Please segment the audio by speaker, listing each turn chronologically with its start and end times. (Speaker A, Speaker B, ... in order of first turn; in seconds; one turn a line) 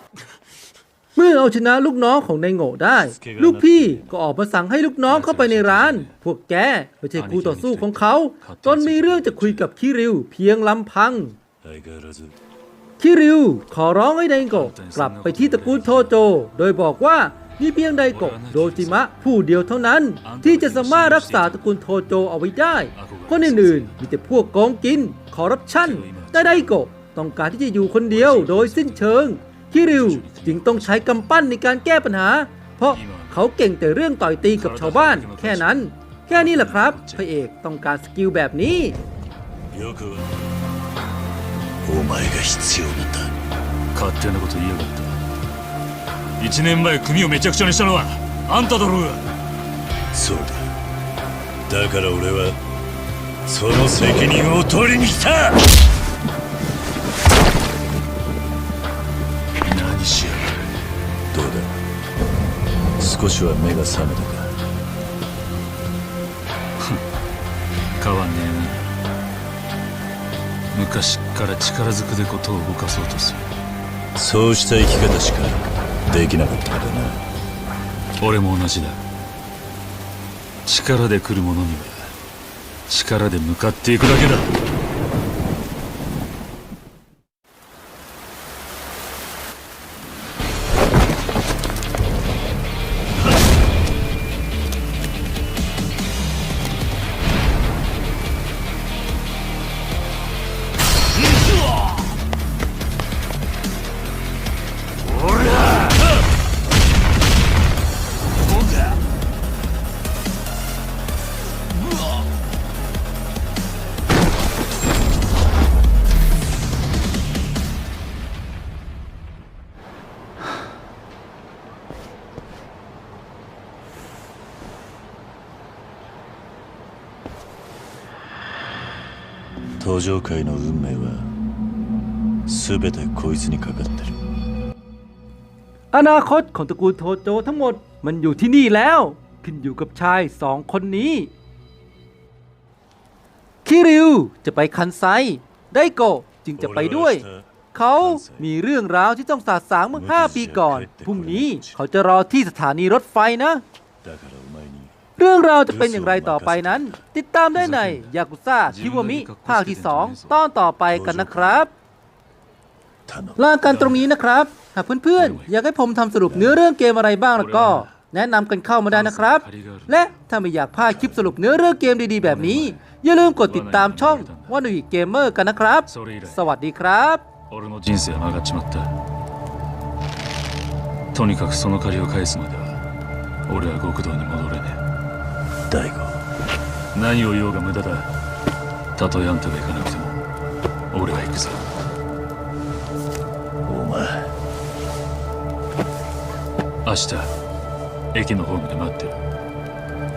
Speaker A: 1.1-11.4
Speaker B: 3.0-4.1
Speaker C: 5.1-6.1
Speaker C: 7.2-9.7
Speaker B: 11.6-12.4
Speaker A: 13.0-39.0
Speaker C: 14.5-16.1
Speaker C: 18.1-19.0
Speaker C: 20.2-21.9
Speaker C: 22.9-24.0
Speaker C: 25.8-26.7
Speaker C: 27.9-31.2
Speaker C: 32.9-33.4
Speaker C: 34.5-37.3
Speaker B: 39.7-40.3
Speaker B: 41.8-43.3
Speaker C: 43.9-45.2
Speaker C: 46.4-49.3
Speaker B: 50.1-50.7
Speaker B: 51.7-52.6
Speaker B: 53.5-55.6
Speaker C: 59.6-60.7
Speaker B: 61.3-61.8
Speaker B: 63.0-64.6
Speaker C: 68.0-68.8
Speaker C: 70.7-73.5
Speaker B: 74.2-77.3
Speaker C: 78.2-79.0
Speaker C: 80.7-82.1
Speaker C: 82.9-84.5
Speaker B: 129.8-131.3
Speaker B: 132.5-134.2
Speaker A: 135.9-141.3
Speaker A: 143.7-153.6
Speaker B: 146.6-148.5
Speaker B: 149.9-151.8
Speaker B: 154.0-155.0
Speaker A: 155.2-161.7
Speaker B: 155.7-157.0
Speaker C: 157.5-158.1
Speaker C: 158.7-160.4
Speaker B: 160.9-161.7
Speaker B: 163.1-163.7
Speaker A: 163.4-177.2
Speaker C: 163.6-164.0
Speaker C: 165.2-165.5
Speaker B: 166.3-166.6
Speaker C: 167.4-167.9
Speaker C: 168.9-170.1
Speaker B: 170.9-171.2
Speaker C: 172.2-172.8
Speaker C: 173.4-174.7
Speaker C: 175.9-176.5
Speaker C: 177.5-178.9
Speaker C: 181.1-182.8
Speaker C: 183.5-184.8
Speaker B: 185.7-186.2
Speaker C: 186.9-188.1
Speaker C: 189.0-190.2
Speaker C: 190.9-191.7
Speaker B: 193.7-194.3
Speaker C: 196.8-197.3
Speaker C: 198.1-199.2